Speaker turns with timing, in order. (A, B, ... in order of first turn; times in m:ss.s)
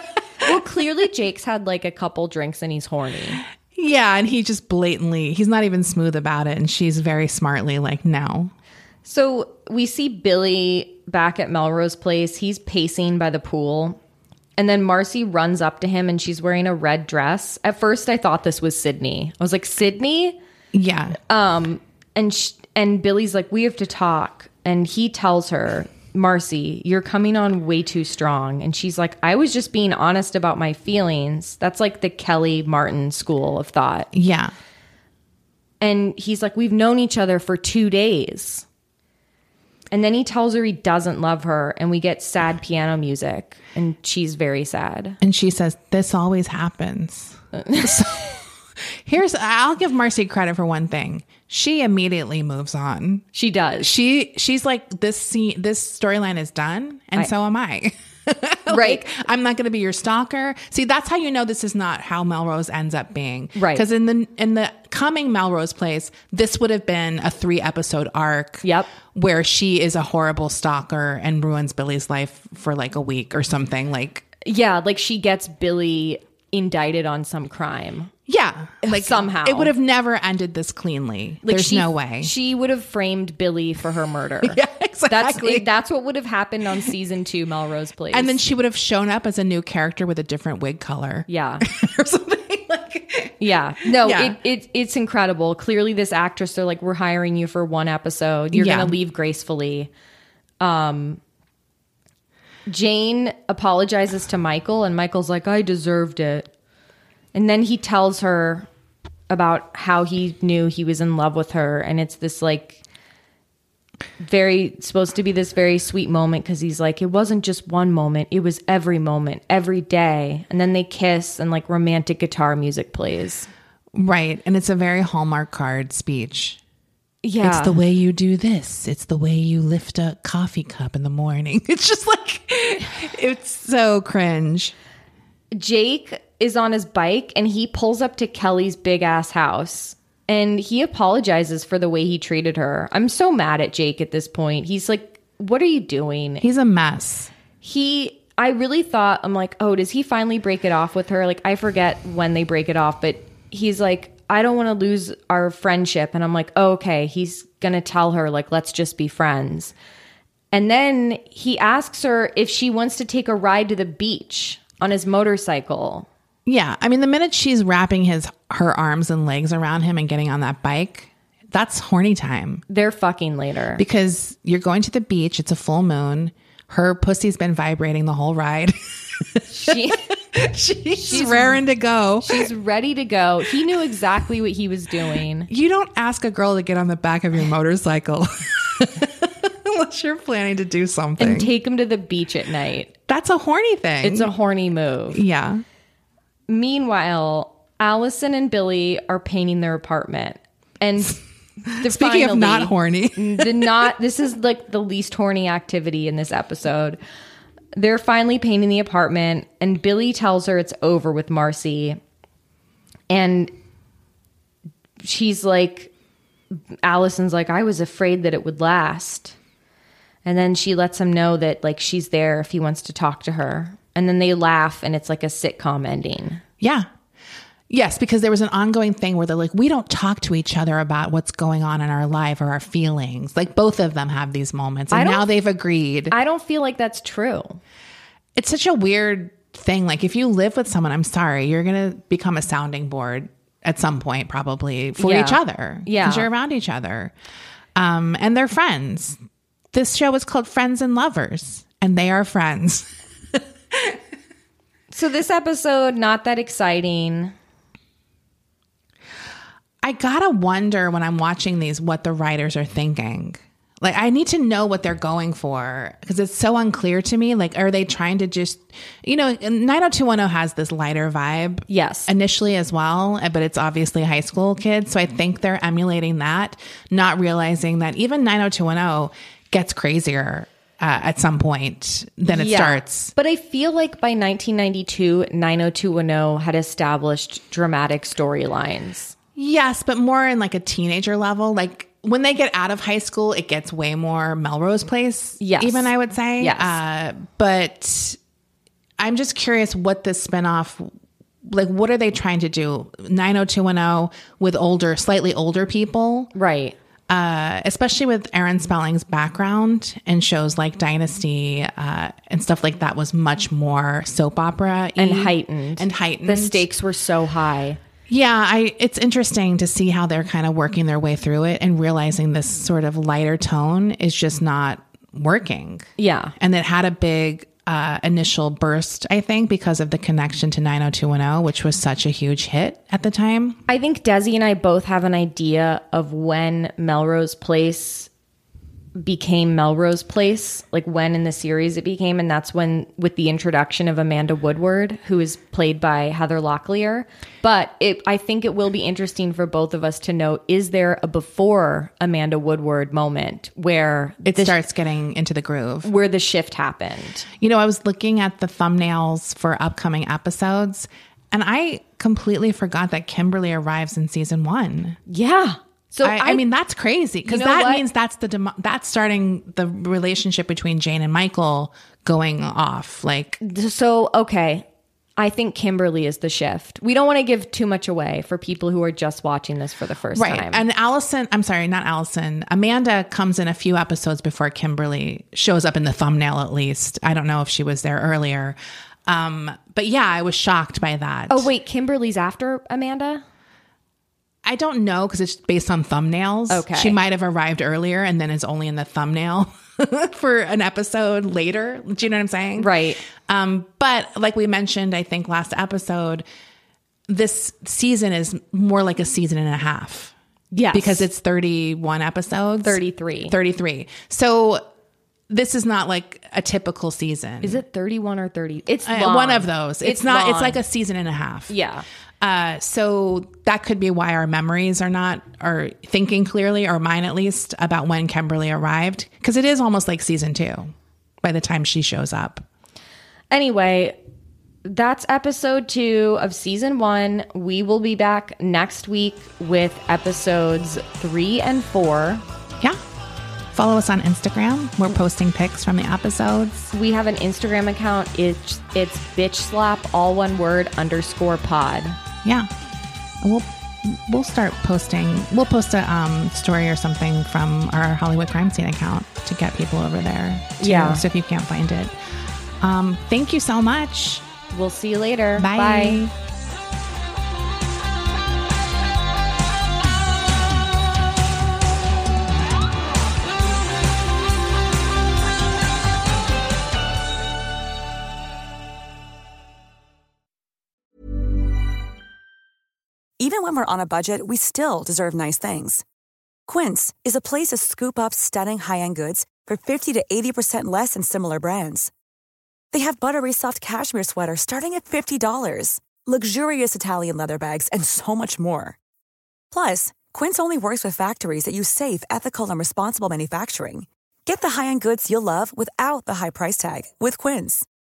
0:00.4-0:03.4 A
0:03.7-0:08.5 B
0:09.0-0:14.0 A
0:14.6-0:20.4 A
0:20.7-0:21.2 B
0:21.3-0:34.1 A
0:34.1-0:34.5 B
0:35.8-0:38.6 A
0:39.9-0:45.2 A
0:45.2-0:53.2 B
0:47.6-0:48.1 A
0:53.3-0:53.9 A
0:53.8-1:14.3 B
0:58.7-0:59.0 A
1:03.6-1:03.9 A
1:08.6-1:08.9 A
1:14.4-1:18.1 A
1:18.3-1:22.3 B
1:18.8-1:19.7 A
1:21.4-1:28.4 A
1:24.4-1:25.7 B
1:28.1-1:34.4 B
1:31.3-1:31.6 A
1:33.4-1:39.9 A
1:38.5-1:39.0 B
1:40.6-1:41.2 A
1:42.7-1:46.5 A
1:47.3-1:48.7 A
1:49.3-1:52.8 A
1:54.2-2:03.5 A
2:03.9-2:06.6 B
2:07.2-2:07.8 A
2:07.4-2:14.7 B
2:15.5-2:26.4 A
2:26.4-2:27.3 B
2:27.6-2:39.7 A
2:40.5-2:46.1 A
2:46.5-2:52.6 B
2:52.7-2:53.8 A
2:53.8-3:02.5 B
2:59.5-3:00.1 A
3:00.9-3:01.6 A
3:02.2-3:05.5 A
3:05.5-3:11.5 B
3:11.2-3:12.9 A
3:13.1-3:14.3 B
3:14.0-3:15.2 A
3:15.1-3:15.6 B
3:16.5-3:27.0 A
3:21.7-3:23.7 B
3:27.7-3:32.0 A
3:33.1-3:33.5 A
3:35.0-3:35.9 A
3:36.8-3:39.4 A
3:40.2-3:46.4 A
3:46.6-3:46.9 B
3:47.7-3:56.2 B
3:54.9-3:55.3 A
3:56.1-3:57.6 A
3:58.4-4:07.1 B
4:05.0-4:06.3 A
4:07.8-4:09.2 B
4:09.7-4:12.9 B
4:14.9-4:17.3 A
4:19.8-4:43.1 B
4:31.7-4:32.1 A
4:42.3-4:49.2 A
4:49.4-4:58.2 B
4:55.4-4:56.8 A
4:59.0-5:00.9 B
5:01.5-5:06.3 B
5:06.3-5:06.8 A
5:07.1-5:16.7 B
5:15.0-5:17.8 A
5:18.1-5:25.9 B
5:26.0-5:26.3 A
5:26.4-5:33.6 B
5:33.7-5:38.1 A
5:39.0-5:54.6 A
5:54.2-5:55.9 B
5:55.8-5:57.2 A
5:57.4-6:05.0 B
6:05.1-6:06.4 A
6:06.0-6:13.4 B
6:07.3-6:07.8 A
6:13.4-6:14.7 A
6:15.2-6:20.6 A
6:20.1-6:31.5 B
6:31.3-6:33.2 A
6:34.4-6:46.2 B
6:36.5-6:37.0 A
6:42.6-6:43.0 A
6:47.1-6:50.1 B
6:50.5-6:51.1 A
6:50.7-6:54.6 B
6:52.6-6:53.4 A
6:55.3-6:57.6 B
6:57.4-7:00.6 A
6:58.8-7:01.6 B
7:01.5-7:01.8 A
7:02.2-7:12.5 B
7:13.3-7:14.0 A
7:14.6-7:22.2 A
7:23.5-7:26.7 B
7:26.7-7:32.0 A
7:32.2-7:32.5 B
7:33.2-7:42.0 B
7:40.6-7:41.0 A
7:42.6-7:44.2 B
7:44.5-7:46.0 A
7:45.4-7:46.1 B
8:03.2-8:05.8 C
8:06.5-8:11.9 C
8:12.7-8:18.8 C
8:19.5-8:27.6 C